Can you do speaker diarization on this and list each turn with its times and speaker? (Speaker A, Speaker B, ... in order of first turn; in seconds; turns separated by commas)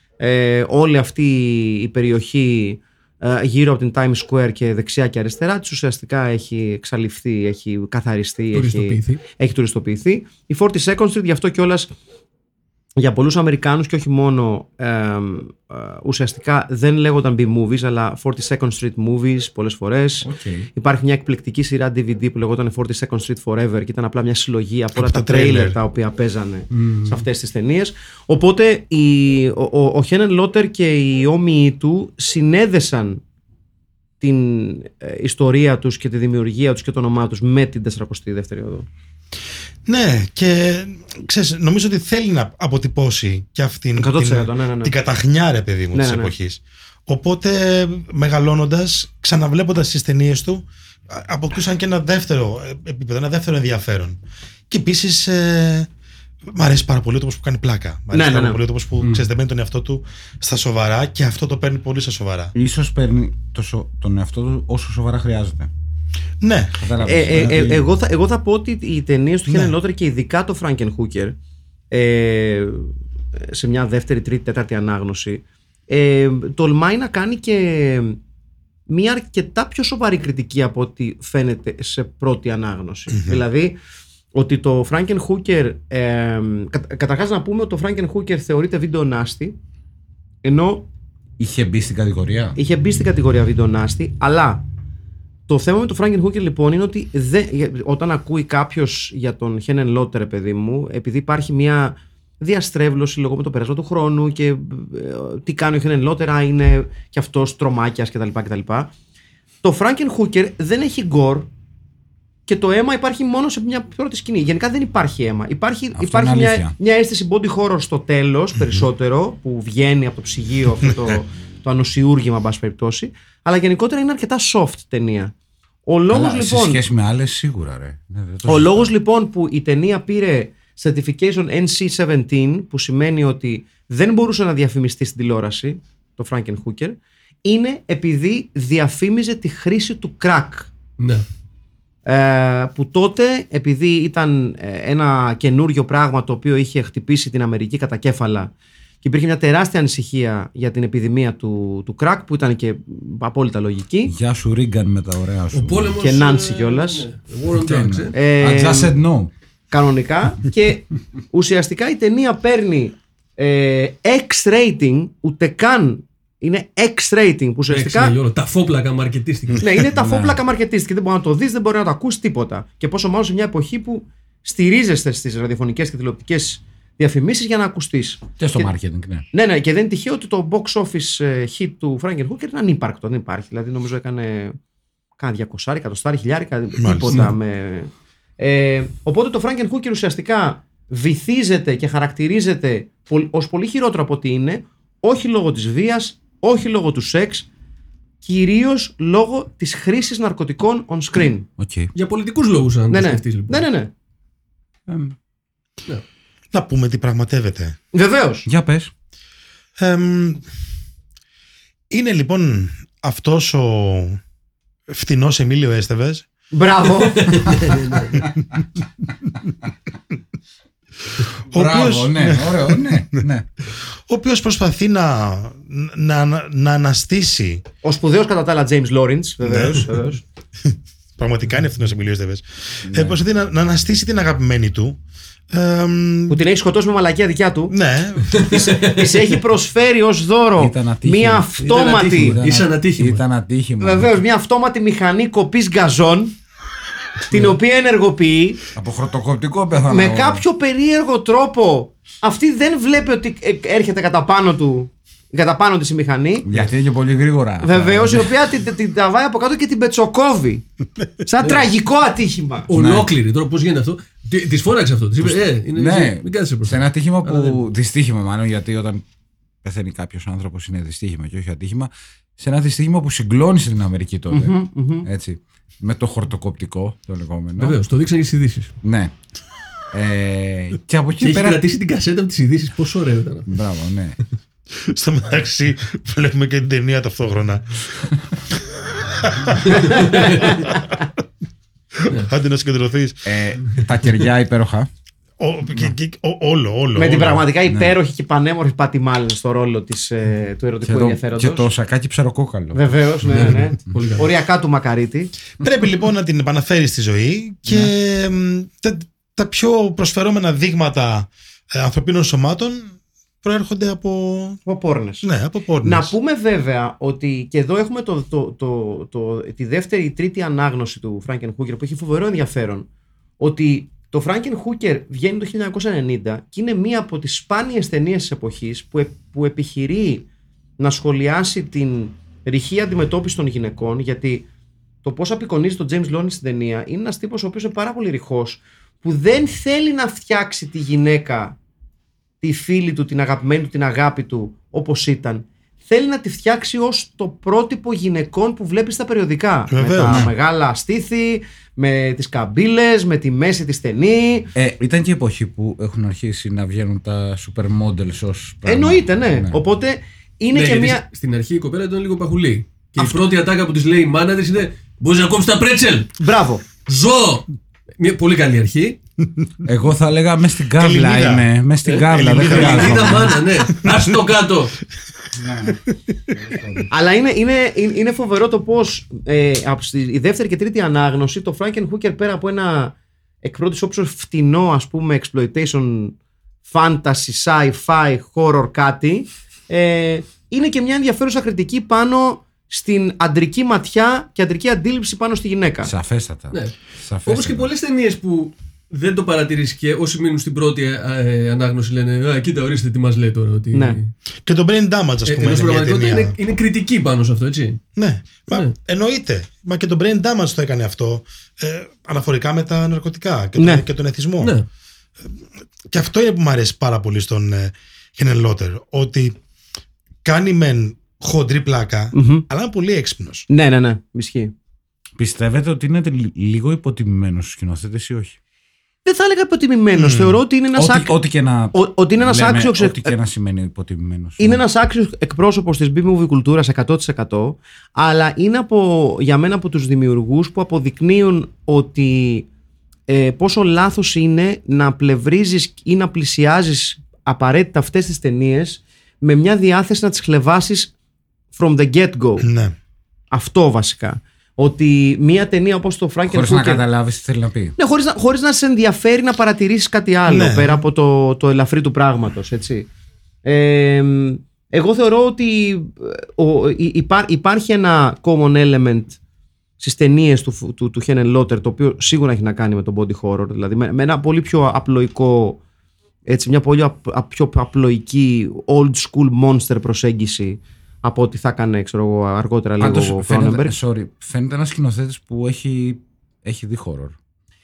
Speaker A: 0.2-11.9, Speaker B: 8.5-9.2, Speaker A: 13.0-33.2, Speaker C: 20.2-20.7, Speaker D: 24.9-25.8, Speaker A: 34.2-38.9, Speaker D: 39.9-54.2, Speaker A: 44.0-44.9, Speaker A: 45.9-46.3, Speaker D: 54.7-55.9, Speaker D: 56.5-62.5, Speaker A: 58.1-58.6, Speaker C: 62.5-65.7, Speaker D: 66.4-66.8, Speaker C: 66.8-67.8, Speaker A: 67.0-71.3, Speaker D: 69.5-69.7, Speaker A: 71.9-78.2, Speaker A: 78.9-83.7, Speaker D: 83.1-83.4, Speaker A: 84.3-89.5, Speaker A: 90.4-90.9, Speaker C: 91.4-92.5, Speaker A: 92.5-94.6, Speaker A: 95.5-108.9, Speaker A: 109.6-111.5, Speaker A: 112.5-125.3, Speaker C: 116.0-116.7, Speaker D: 118.6-118.8, Speaker A: 125.8-126.8, Speaker C: 126.1-128.9, Speaker A: 128.4-140.7, Speaker B: 141.0-141.2, Speaker A: 142.1-154.1, Speaker C: 154.1-156.0, Speaker B: 155.5-158.1, Speaker A: 156.0-157.1, Speaker C: 157.5-159.3, Speaker A: 158.1-158.9, Speaker A: 159.7-168.1, Speaker B: 167.7-169.7, Speaker A: 169.6-178.7, Speaker C: 169.9-170.4, Speaker C: 178.4-179.2, Speaker A: 179.3-184.6, Speaker A: 185.2-197.5, Speaker D: 186.8-187.3, Speaker A: 198.2-201.5, Speaker C: 201.6-201.9, Speaker B: 201.9-203.6, Speaker A: 202.9-203.9, Speaker C: 204.9-205.1, Speaker D: 206.5-207.8, Speaker A: 207.9-208.5, Speaker C: 208.4-208.9, Speaker D: 209.8-210.4, Speaker D: 211.9-214.2, Speaker D: 214.9-216.2, Speaker A: 216.5-217.6, Speaker B: 217.2-218.2, Speaker D: 221.1-227.6, Speaker C: 221.5-223.5, Speaker A: 227.8-230.2, Speaker D: 229.4-230.0, Speaker D: 230.6-235.0, Speaker C: 232.9-233.2, Speaker D: 235.5-236.4, Speaker A: 236.3-237.7, Speaker D: 237.7-238.7, Speaker A: 238.5-242.4, Speaker B: 238.5-239.2, Speaker C: 240.6-241.6, Speaker B: 241.6-243.2, Speaker C: 242.1-244.1, Speaker A: 243.8-246.3, Speaker A: 247.3-248.6, Speaker C: 248.7-250.4, Speaker A: 249.9-256.4, Speaker C: 256.4-258.3, Speaker A: 257.6-260.6, Speaker A: 261.2-262.7, Speaker B: 262.7-267.6, Speaker C: 262.7-263.1, Speaker C: 265.2-269.0, Speaker C: 269.6-277.8, Speaker A: 274.3-275.1, Speaker B: 277.6-278.7, Speaker C: 278.8-279.1, Speaker C: 279.9-281.6, Speaker B: 281.2-283.5, Speaker C: 283.5-284.2, Speaker D: 284.7-291.1, Speaker B: 289.9-290.3, Speaker D: 291.9-293.4, Speaker C: 293.2-294.9, Speaker D: 295.4-297.5, Speaker A: 296.9-301.7, Speaker C: 300.8-302.8, Speaker A: 302.7-305.3, Speaker B: 303.3-304.3, Speaker D: 305.6-314.6, Speaker A: 314.6-315.2, Speaker D: 315.2-316.1, Speaker A: 315.8-322.9, Speaker A: 323.4-330.2, Speaker A: 330.8-334.4, Speaker A: 335.0-341.6, Speaker A: 342.4-354.5, Speaker D: 349.7-350.3, Speaker C: 350.0-350.3, Speaker C: 354.5-359.6, Speaker A: 358.6-361.0, Speaker B: 360.5-366.2, Speaker A: 366.2-366.6, Speaker B: 366.9-367.5, Speaker B: 368.0-369.0, Speaker C: 369.6-373.3, Speaker D: 370.8-374.1, Speaker B: 372.4-374.8, Speaker C: 375.3-376.9, Speaker A: 376.9-395.9, Speaker C: 395.8-397.7, Speaker B: 396.5-404.1, Speaker A: 403.7-404.0, Speaker D: 404.4-406.3, Speaker B: 405.2-407.8, Speaker D: 407.9-414.5, Speaker A: 413.6-413.8, Speaker B: 414.4-414.6, Speaker D: 415.9-419.4, Speaker D: 420.2-423.5, Speaker A: 422.1-422.4, Speaker A: 423.5-424.5, Speaker C: 425.2-428.4, Speaker A: 429.0-431.1, Speaker D: 429.9-430.4, Speaker C: 430.7-434.6, Speaker A: 431.7-433.1, Speaker A: 434.4-442.5, Speaker A: 443.1-450.9, Speaker A: 451.5-452.4, Speaker D: 452.4-452.7, Speaker A: 453.3-456.8, Speaker C: 456.3-457.7, Speaker A: 457.8-462.9, Speaker D: 460.3-460.8, Speaker A: 463.4-469.2, Speaker A: 469.8-475.6, Speaker A: 476.3-483.7, Speaker C: 482.8-487.1